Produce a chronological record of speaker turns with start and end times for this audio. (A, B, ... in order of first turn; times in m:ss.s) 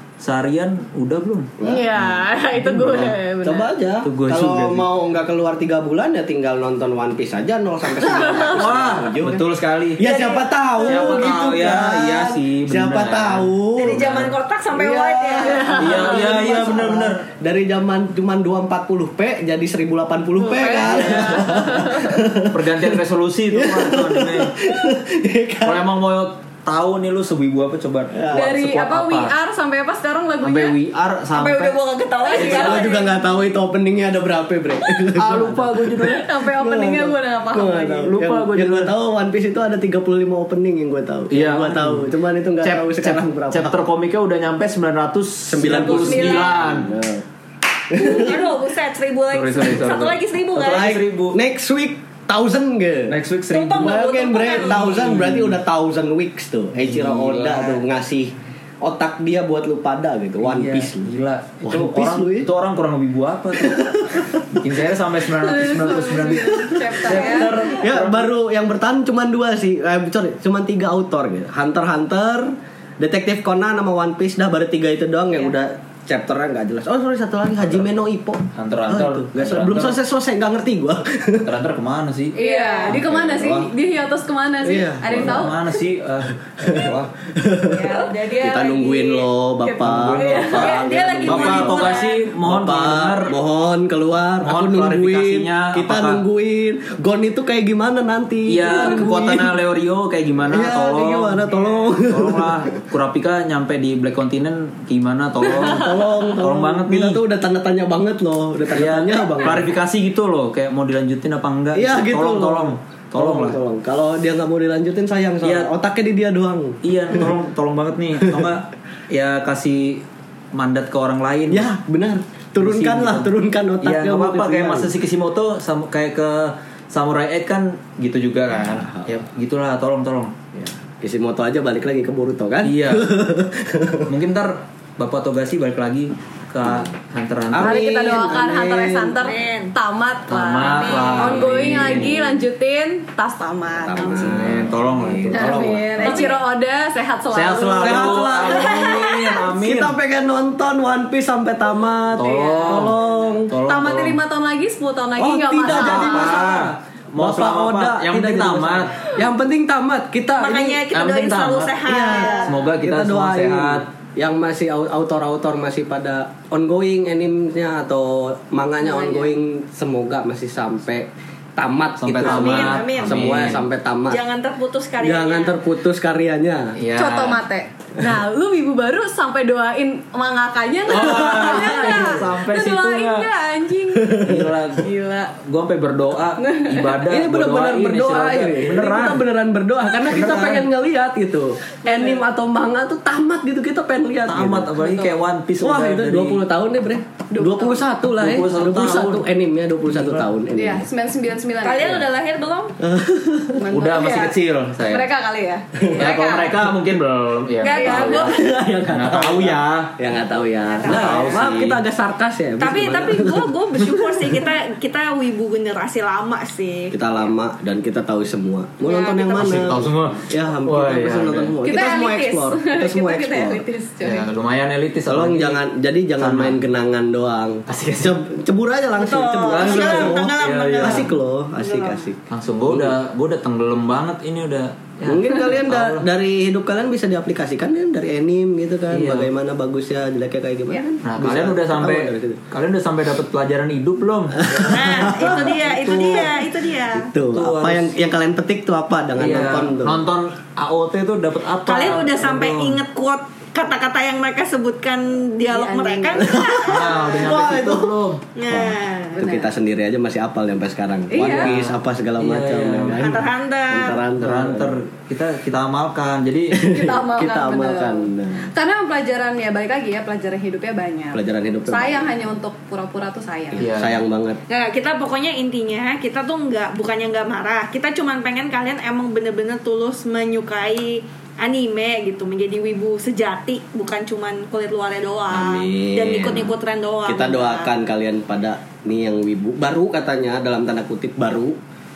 0:00.2-0:03.2 A
0:01.6-0:01.9 B
0:01.6-0:03.7 C
0:03.4-0:09.4 B
0:04.0-0:04.9 A
0:08.2-0:10.1 A
0:10.0-0:23.0 B
0:10.0-0:11.1 D
0:10.9-0:14.4 A
0:13.8-0:16.3 D
0:15.8-0:17.2 A
0:20.4-0:21.9 C
0:20.7-0:24.5 A
0:23.5-0:25.9 B
0:25.6-0:29.3 A
0:28.1-0:28.5 B
0:28.3-0:30.8 C
0:30.4-0:31.8 A
0:31.3-0:33.2 D
0:32.2-0:33.1 C
0:32.4-0:43.8 B
0:32.4-0:32.7 A
0:35.1-0:36.3 A
0:36.0-0:38.2 C
0:38.0-0:38.9 A
0:41.3-0:42.1 A
0:42.6-0:46.9 A
0:45.5-0:47.2 B
0:45.8-0:46.7 D
0:47.9-0:48.4 B
0:47.9-0:51.0 D
0:49.3-0:51.4 A
0:50.6-0:53.1 B
0:53.1-0:54.0 A
0:53.5-0:55.4 D
0:53.8-1:01.1 B
0:54.6-0:55.6 A
0:56.8-0:57.8 A
1:00.4-1:08.4 A
1:01.6-1:02.5 B
1:03.6-1:04.6 B
1:05.4-1:07.5 C
1:06.5-1:21.5 B
1:18.6-1:20.0 A
1:21.4-1:22.4 A
1:22.3-1:23.0 D
1:22.3-1:25.6 C
1:22.9-1:23.7 B
1:24.6-1:25.6 B
1:25.0-1:27.1 A
1:26.6-1:39.5 B
1:27.6-1:29.3 D
1:29.6-1:30.6 C
1:29.8-1:33.3 A
1:30.2-1:32.3 D
1:34.4-1:36.2 A
1:38.5-1:41.5 A
1:40.5-1:42.6 B
1:42.1-1:47.2 A
1:45.4-1:49.7 B
1:48.7-1:53.6 A
1:51.8-1:57.4 B
1:55.4-1:55.7 A
1:56.8-2:01.7 A
1:58.2-1:58.5 B
2:01.5-2:04.9 B
2:02.6-2:10.4 A
2:08.6-2:09.1 B
2:10.6-2:14.1 B
2:12.6-2:13.1 A
2:14.1-2:17.8 A
2:17.5-2:19.3 B
2:17.6-2:24.4 C
2:19.2-2:19.7 D
2:20.3-2:22.4 A
2:20.7-2:21.8 D
2:23.8-2:26.3 B
2:24.1-2:26.4 A
2:25.3-2:29.2 C
2:27.3-2:30.0 A
2:27.8-2:33.5 B
2:28.5-2:29.2 D
2:32.2-2:33.0 A
2:32.2-2:32.9 C
2:33.5-2:34.2 A
2:33.6-2:36.4 C
2:35.2-2:40.8 B
2:35.6-2:39.0 A
2:40.4-2:42.5 D
2:40.9-2:41.9 A
2:41.8-2:54.2 B
2:42.4-2:43.8 A
2:48.8-2:49.3 C
2:52.0-2:53.6 A
2:52.2-2:53.6 D
2:54.1-2:55.6 D
2:55.0-2:56.8 B
2:56.8-2:57.4 A
2:57.0-3:04.2 C
3:00.9-3:03.3 A
3:04.0-3:04.5 B
3:04.1-3:09.2 A
3:04.8-3:05.4 C
3:06.4-3:07.0 C
3:07.0-3:14.8 B
3:10.0-3:10.7 A
3:14.3-3:16.4 A
3:14.8-3:15.1 C
3:15.6-3:20.9 B
3:17.3-3:17.8 C
3:18.1-3:19.3 A
3:19.9-3:20.2 A
3:20.6-3:22.0 C
3:21.6-3:22.8 D
3:22.8-3:23.6 B
3:23.5-3:26.6 C
3:23.7-3:25.1 A
3:25.8-3:26.1 B
3:26.0-3:29.9 A
3:27.6-3:28.5 D
3:27.7-3:28.3 C
3:27.8-3:34.2 B
3:30.1-3:31.6 D
3:30.8-3:31.8 A
3:32.6-3:37.1 D
3:36.9-3:43.6 B
3:38.8-3:39.8 D
3:39.4-3:41.6 A
3:41.6-3:44.3 C
3:44.0-3:45.6 A
3:45.1-3:53.0 B
3:46.2-3:46.6 A
3:47.7-3:48.2 A
3:49.0-3:52.0 D
3:49.4-3:51.1 A
3:52.3-3:56.0 A
3:55.1-4:02.4 B
3:58.9-3:59.3 A
4:01.0-4:06.3 A
4:04.4-4:10.1 B
4:04.6-4:07.1 D
4:07.3-4:08.0 A
4:09.2-4:12.8 A
4:11.7-4:17.6 D
4:15.5-4:16.4 C
4:16.1-4:17.9 B
4:16.6-4:18.2 A
4:18.4-4:19.2 D
4:18.5-4:24.8 B
4:19.2-4:19.5 C
4:21.1-4:21.5 C
4:21.2-4:23.2 A
4:23.0-4:24.0 D
4:24.2-4:26.7 A
4:26.5-4:28.5 B
4:26.6-4:33.7 C
4:31.1-4:32.1 B
4:33.5-4:34.4 B
4:33.6-4:34.0 A
4:34.5-4:47.7 D
4:45.3-4:51.6 B